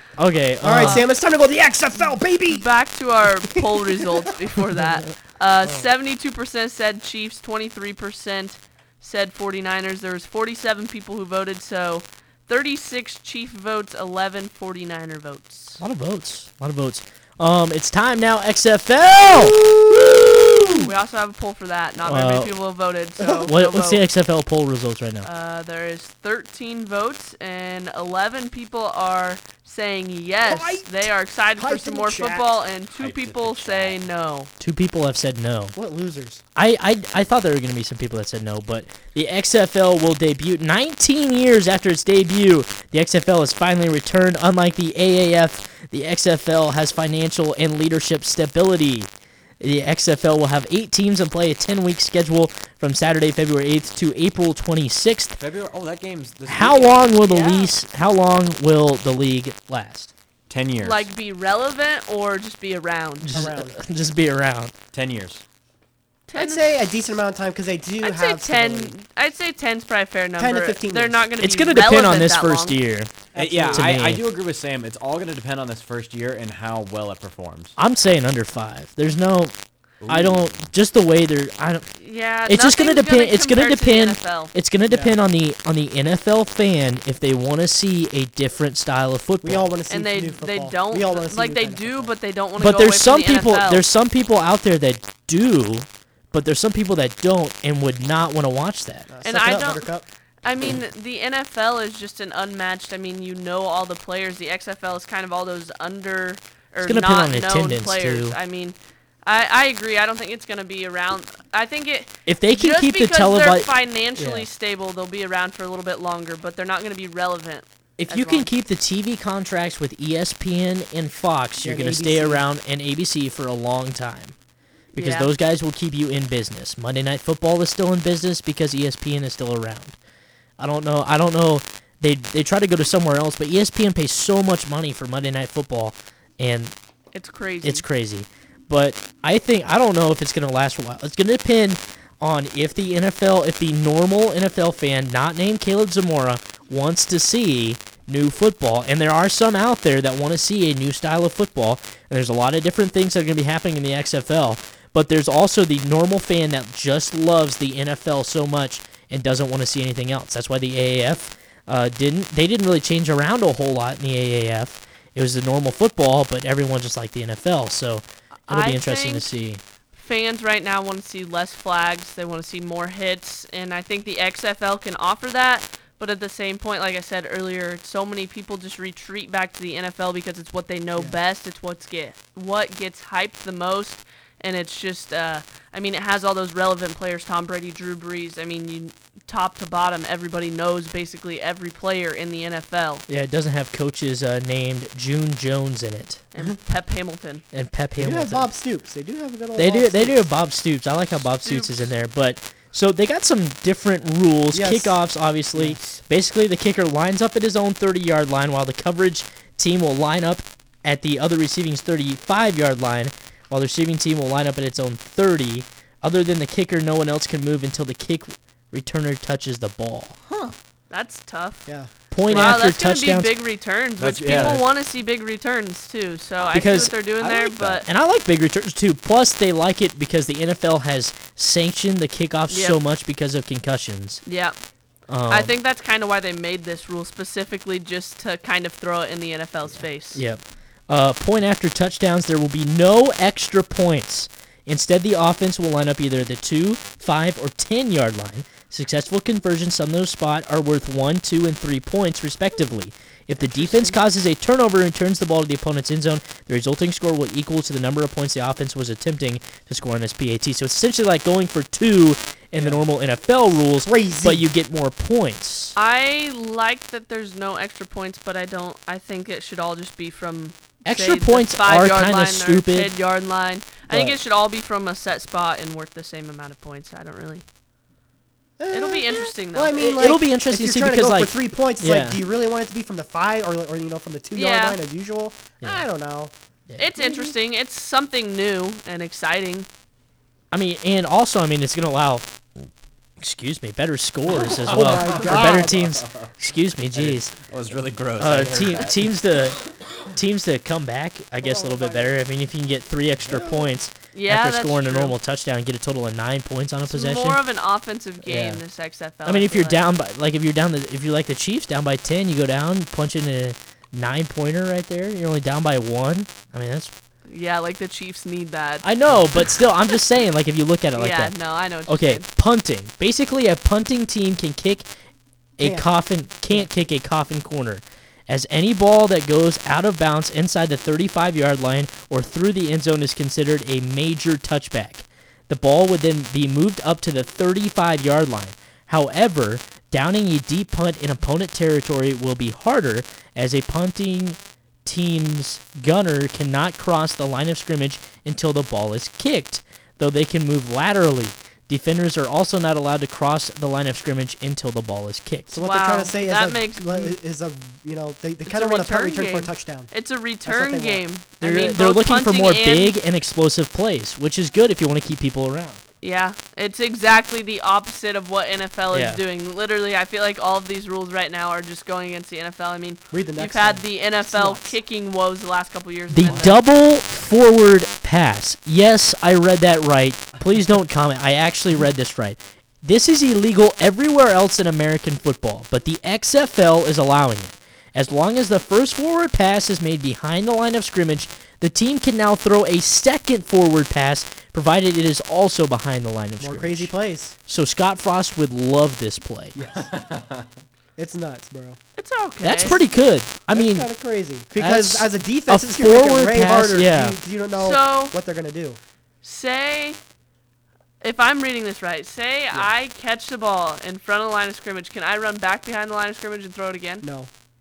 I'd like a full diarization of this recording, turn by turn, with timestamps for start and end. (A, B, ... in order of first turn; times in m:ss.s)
0:00.2-0:01.1 A
0:00.6-0:02.7 B
0:02.0-0:15.8 C
0:03.5-0:04.3 B
0:15.8-0:19.6 A
0:19.9-0:20.9 B
0:20.8-0:24.0 C
0:22.0-0:22.6 A
0:23.2-0:23.5 B
0:23.4-0:25.3 A
0:25.2-0:34.5 C
0:30.4-0:32.6 B
0:33.0-0:34.0 D
0:34.6-0:35.8 A
0:35.8-0:36.4 B
0:36.6-0:55.4 A
0:55.4-0:57.0 D
0:56.5-1:00.1 A
0:57.0-0:57.7 C
1:00.5-1:01.1 D
1:00.8-1:03.4 C
1:03.2-1:04.7 A
1:03.3-1:03.8 B
1:04.9-1:05.4 D
1:06.3-1:06.7 C
1:06.4-1:09.0 B
1:08.0-1:12.8 C
1:10.4-1:11.3 B
1:11.4-1:14.2 A
1:13.3-1:13.9 B
1:13.4-1:17.8 D
1:17.8-1:19.6 A
1:20.0-1:20.6 D
1:20.1-1:21.9 A
1:22.0-1:24.5 C
1:22.5-1:29.7 A
1:24.9-1:25.2 B
1:29.4-1:32.1 B
1:29.9-1:33.8 C
1:32.6-1:39.1 A
1:39.1-1:40.0 B
1:39.2-1:39.9 C
1:40.4-1:58.5 C
1:46.8-1:48.4 A
1:52.3-1:54.5 A
1:58.0-2:04.4 A
2:01.6-2:02.4 B
2:04.9-2:05.3 C
2:04.9-2:10.0 A
2:10.6-2:16.7 A
2:17.1-2:17.9 C
2:17.6-2:49.6 A
2:48.5-2:49.3 C
2:49.9-3:13.0 C
3:13.1-3:16.2 A
3:16.3-3:17.4 C
3:17.5-3:18.5 A
3:18.0-3:20.3 B
3:19.6-3:40.2 A
3:21.4-3:21.9 C
3:24.5-3:25.0 B
3:25.6-3:26.0 B
3:40.9-3:41.7 C
3:42.1-3:43.4 A
3:42.3-3:47.9 C
3:44.0-3:44.7 D
3:44.3-3:44.6 A
3:46.5-3:54.2 A
3:52.5-3:52.8 C
3:54.2-3:54.6 C
3:55.1-3:55.5 A
3:55.3-4:00.2 C
3:59.7-4:25.8 A
4:23.8-4:24.5 B
4:25.8-4:37.4 C
4:30.8-4:32.9 A
4:33.9-4:34.2 A
4:38.6-4:46.3 B
4:38.7-4:39.9 C
4:39.8-4:42.2 A
4:44.4-4:44.8 C
4:46.8-4:49.7 C
4:47.0-4:47.4 B
4:50.5-4:52.3 A
4:53.2-4:57.3 A
4:54.3-4:56.3 D
4:54.7-4:55.8 B
4:56.9-4:59.0 D
4:58.2-4:59.6 A
5:00.1-5:07.4 A
5:01.4-5:02.1 B
5:03.3-5:03.7 B
5:04.1-5:05.2 C
5:06.9-5:09.8 C
5:08.2-5:08.6 A
5:09.2-5:16.9 A
5:17.3-5:19.6 C
5:18.8-5:21.4 A
5:20.9-5:22.3 C
5:21.9-5:24.9 A
5:25.6-5:55.5 A
5:25.6-5:25.9 B
5:55.5-5:59.9 B
5:55.5-5:57.2 C
5:58.4-6:03.0 C
6:00.4-6:01.0 B
6:01.4-6:05.8 A
6:06.0-6:16.6 C
6:08.9-6:09.2 A
6:13.1-6:14.8 B
6:16.1-6:36.9 A
6:36.4-6:37.4 B
6:37.5-6:39.6 A
6:39.6-6:39.9 B
6:39.6-6:40.5 D
6:41.0-6:41.8 B
6:42.0-6:42.8 C
6:42.4-6:43.9 A
6:43.5-6:48.8 B
6:44.5-6:47.2 A
6:47.6-6:48.2 C
6:49.2-6:50.0 C
6:51.0-6:57.0 C
6:57.0-6:57.3 B